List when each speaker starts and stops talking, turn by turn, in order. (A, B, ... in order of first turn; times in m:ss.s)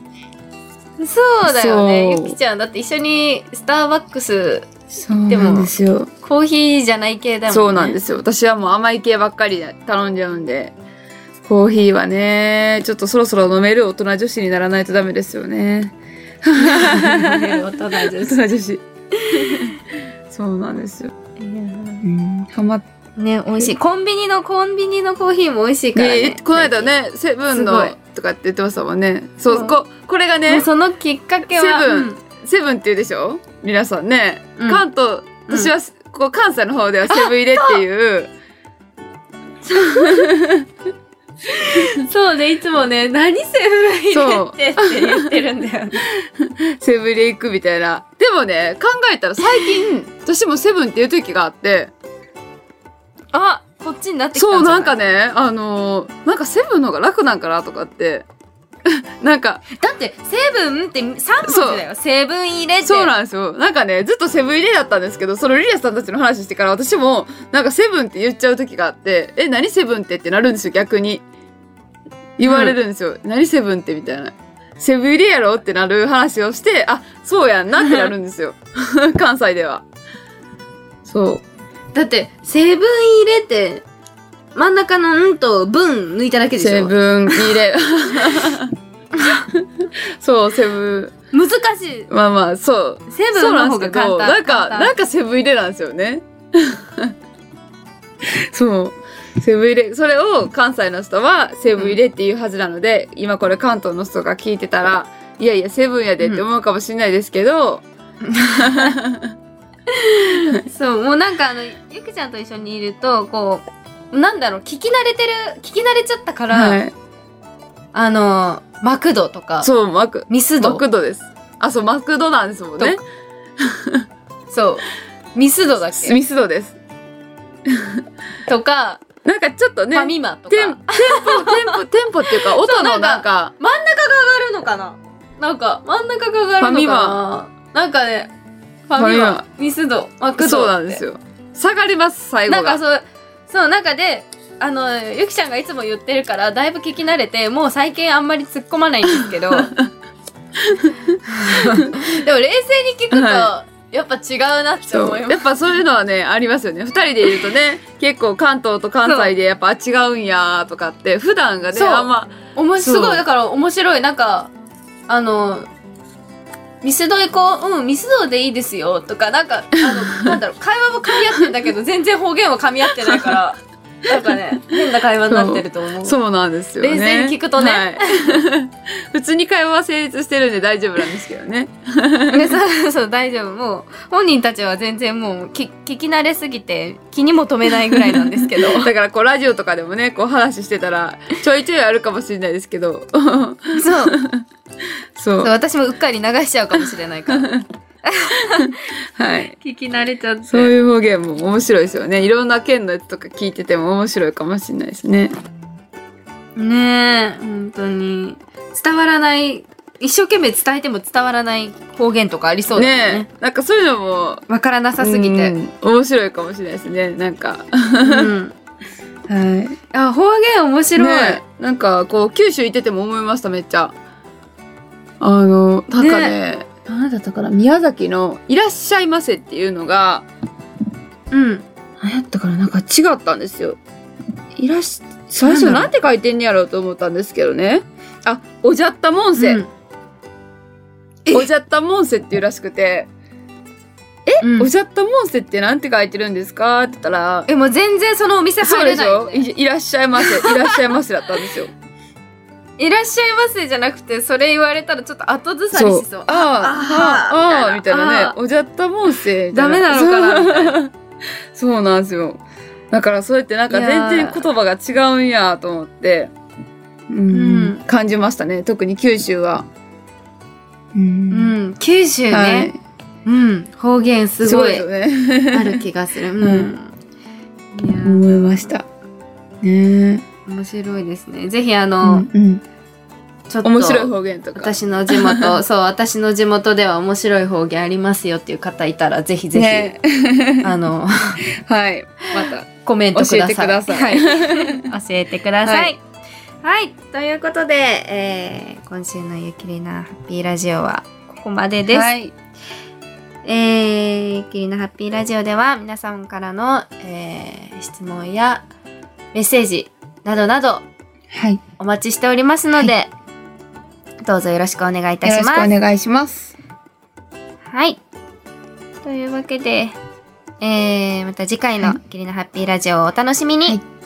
0:01.0-0:04.7 A
0:01.5-0:02.4 B
0:04.9-0:06.1 B
0:05.3-0:08.0 A
0:07.5-0:10.8 B
0:11.4-0:19.8 B
0:16.6-0:18.4 A
0:19.2-0:19.7 A
0:20.3-0:21.1 B
0:21.4-0:22.0 A
0:22.0-0:22.8 B
0:23.2-0:26.9 A
0:26.0-0:30.6 B
0:27.5-0:28.0 A
0:29.5-0:29.8 A
0:30.5-0:32.2 A
0:31.5-0:38.3 B
0:34.6-0:34.8 A
0:37.1-0:37.8 A
0:39.6-0:40.3 A
0:39.8-0:40.7 B
0:41.5-0:46.0 A
0:44.1-0:45.2 B
0:46.1-0:51.9 B
0:53.3-0:55.0 A
0:54.4-0:58.3 B
0:58.9-0:59.6 B
0:59.8-1:03.1 A
1:01.4-1:01.8 B
1:02.9-1:11.2 B
1:12.4-1:19.8 B
1:12.4-1:12.8 A
1:21.0-1:21.4 B
1:21.9-1:23.8 A
1:24.6-1:27.6 A
1:26.6-1:28.8 B
1:29.1-1:29.5 A
1:29.5-1:31.1 B
1:31.3-1:32.1 A
1:32.1-1:37.1 B
1:33.1-1:34.9 A
1:38.2-1:47.8 B
1:48.2-1:49.0 A
1:48.4-1:49.3 B
1:49.9-1:56.8 A
1:56.5-1:56.9 B
1:57.9-1:59.7 A
1:59.6-2:03.0 B
2:00.3-2:00.8 A
2:03.6-2:04.0 B
2:04.5-2:06.2 A
2:05.9-2:06.8 B
2:07.7-2:08.0 B
2:08.5-2:09.1 A
2:09.2-2:13.5 B
2:09.9-2:11.8 A
2:12.3-2:18.3 A
2:16.6-2:17.2 B
2:18.9-2:21.0 A
2:19.0-2:19.4 B
2:20.4-2:22.8 B
2:22.5-2:29.7 A
2:29.2-2:29.9 B
2:30.7-2:31.9 B
2:31.2-2:35.5 A
2:33.1-2:33.5 B
2:34.8-2:43.2 B
2:39.0-2:39.3 A
2:41.7-2:44.5 A
2:45.1-2:45.7 A
2:46.8-2:56.2 A
2:53.1-2:53.4 B
2:55.3-3:02.5 B
2:56.8-2:58.4 A
3:02.3-3:08.9 A
3:07.9-3:14.4 B
3:13.7-3:14.2 A
3:15.2-3:15.5 B
3:15.4-3:17.5 A
3:17.3-3:17.6 B
3:18.0-3:18.8 A
3:18.6-3:19.5 B
3:19.6-3:20.7 A
3:20.5-3:25.3 B
3:26.6-3:33.3 A
3:32.8-3:34.4 B
3:34.5-3:35.6 A
3:35.0-3:38.3 B
3:38.0-3:38.6 A
3:39.3-3:39.8 B
3:39.9-3:41.4 A
3:41.0-3:43.9 B
3:45.2-3:50.3 B
3:46.0-3:46.4 A
3:51.3-3:51.6 A
3:52.0-3:53.8 B
3:54.6-3:59.6 B
3:55.4-3:55.9 A
3:59.4-3:59.7 A
4:01.3-4:03.1 B
4:04.3-4:07.5 B
4:04.4-4:04.7 A
4:07.5-4:09.5 A
4:08.6-4:11.7 B
4:10.2-4:10.8 A
4:12.8-4:18.4 A
4:15.7-4:20.9 B
4:19.5-4:20.8 A
4:21.5-4:26.3 B
4:23.7-4:24.4 A
4:27.1-4:29.7 B
4:27.3-4:27.8 A
4:30.9-4:31.6 B
4:31.3-4:32.7 A
4:32.3-4:32.8 B
4:33.3-4:34.8 A
4:34.4-4:35.8 B
4:35.5-4:36.9 A
4:36.4-4:36.7 B
4:37.7-4:38.7 A
4:38.0-4:38.8 B
4:39.6-4:40.3 B
4:40.5-4:42.3 A
4:42.0-4:42.6 B
4:43.5-4:49.9 A
4:43.6-4:45.6 B
4:49.5-4:50.7 B
4:50.6-4:51.4 A
4:51.5-4:54.8 B
4:52.3-4:56.0 A
4:55.6-4:55.9 B
4:56.6-5:02.1 A
5:01.9-5:02.3 B
5:03.4-5:08.6 A
5:09.3-5:10.8 A
5:11.3-5:11.6 B
5:11.8-5:13.1 A
5:14.2-5:15.7 A
5:15.2-5:16.5 B
5:17.7-5:18.0 A
5:19.0-5:20.0 A
5:20.6-5:23.8 A